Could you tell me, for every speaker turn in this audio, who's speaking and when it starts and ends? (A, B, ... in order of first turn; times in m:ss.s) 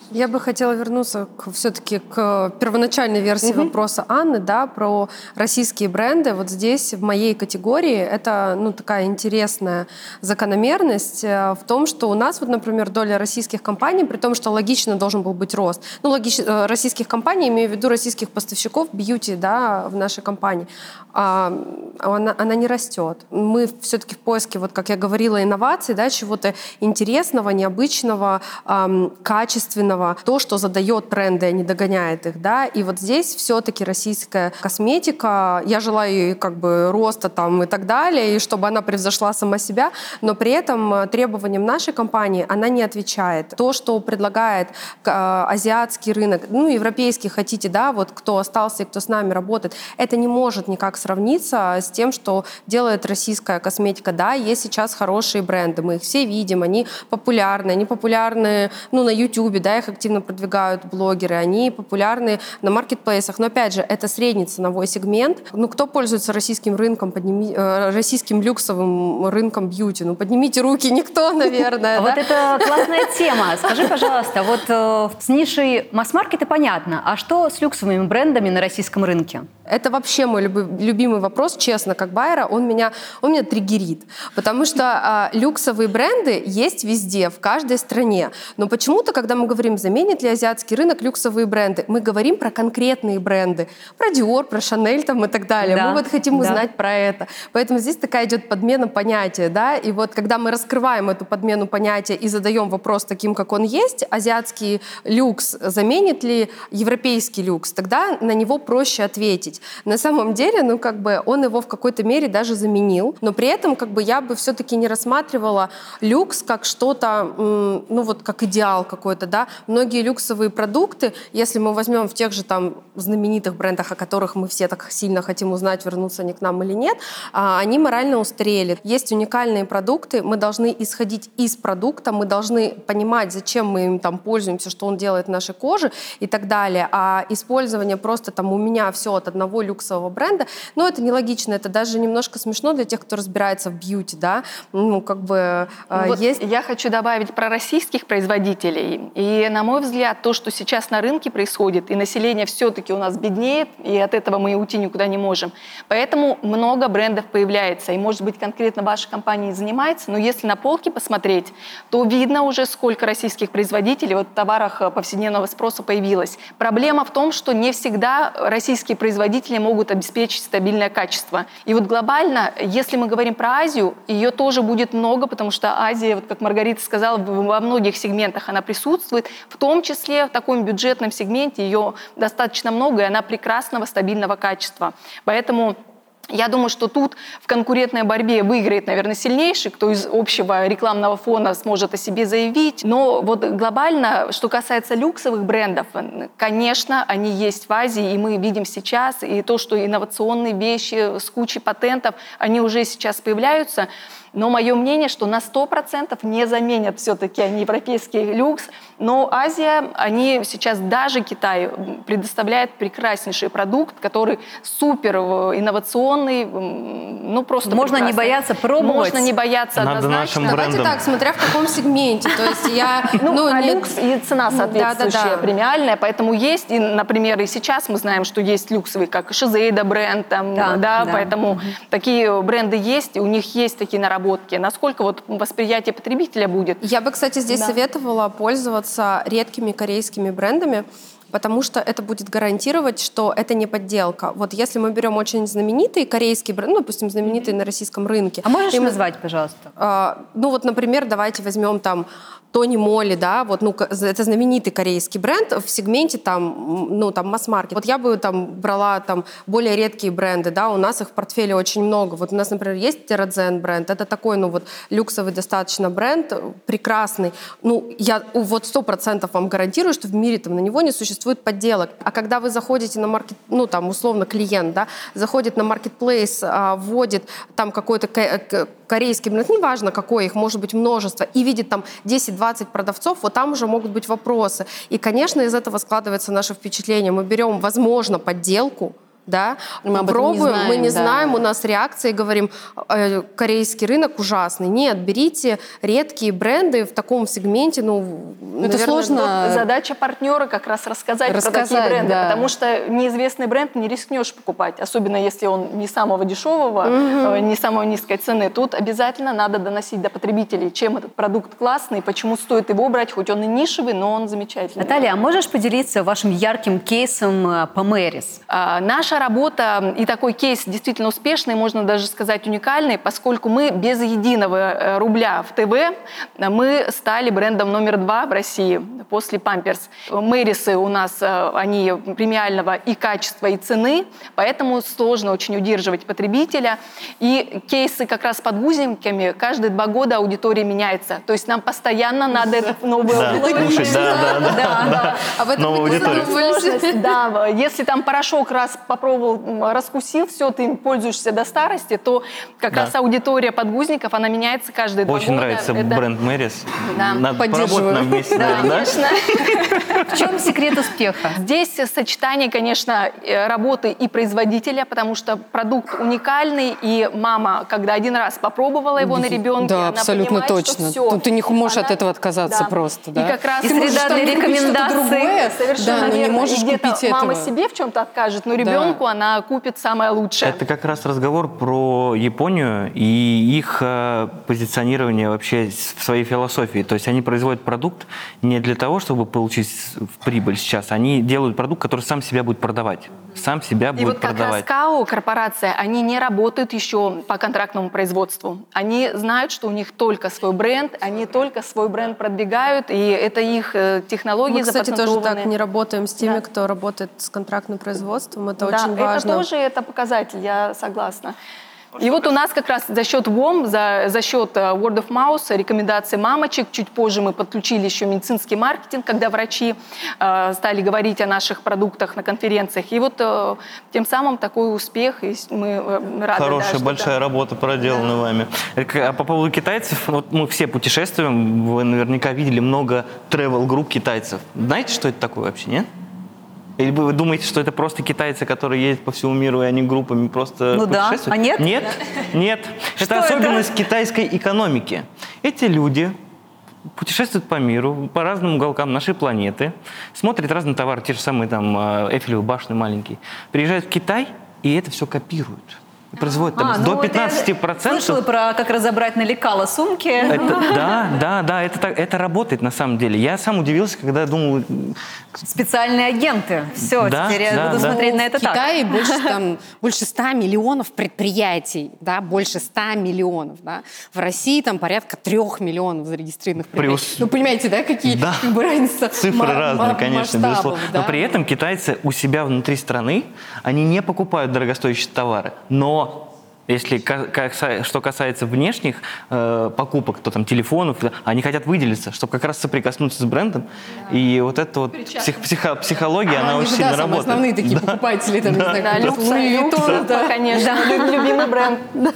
0:00.1-1:13.1 A
1:11.9-1:19.5 B
1:13.7-1:14.1 A
1:19.7-2:26.4 A
1:35.6-1:36.6 B
2:25.9-3:05.8 C
3:06.3-3:40.7 C
3:37.6-3:39.3 B
3:39.8-3:41.5 D
3:40.4-3:44.0 A
3:43.2-3:56.8 C
3:44.5-3:45.5 A
3:50.5-3:51.3 B
3:56.8-4:09.0 A
3:57.5-3:57.8 C
4:08.4-4:09.7 B
4:09.8-4:59.3 A
4:49.8-4:51.4 E
4:58.6-4:59.6 E
4:59.2-5:15.1 C
5:01.2-5:02.5 E
5:06.8-5:07.5 A
5:14.8-5:18.4 B
5:18.5-5:56.0 C
5:43.1-5:46.4 D
5:43.2-5:47.2 A
5:43.9-5:44.9 B
5:55.0-5:59.0 D
5:56.8-5:57.3 C
5:57.4-5:58.9 E
5:58.4-5:58.7 B
5:58.4-6:00.2 C
5:59.7-6:00.0 D
6:00.1-6:01.4 B
6:01.4-6:20.6 C
6:09.0-6:17.5 E
6:13.6-6:15.4 B
6:15.9-6:16.2 B
6:18.6-6:19.0 E
6:20.4-6:34.6 D
6:34.0-6:45.5 C
6:44.5-6:49.4 A
6:48.6-6:51.4 C
6:52.0-7:07.2 C
7:06.3-7:15.9 D
7:16.8-7:26.2 D
7:20.7-7:21.8 B
7:23.0-7:23.7 B
7:26.9-7:38.2 D
7:36.2-7:40.9 B
7:40.3-7:45.0 D
7:45.4-7:49.3 B
7:47.0-7:48.0 D
7:47.4-8:01.4 E
7:56.7-7:57.3 D
7:58.0-7:58.5 D
7:59.1-8:19.2 D
8:16.3-8:21.2 E
8:18.7-8:21.9 C
8:19.8-8:20.0 D
8:20.5-8:21.1 B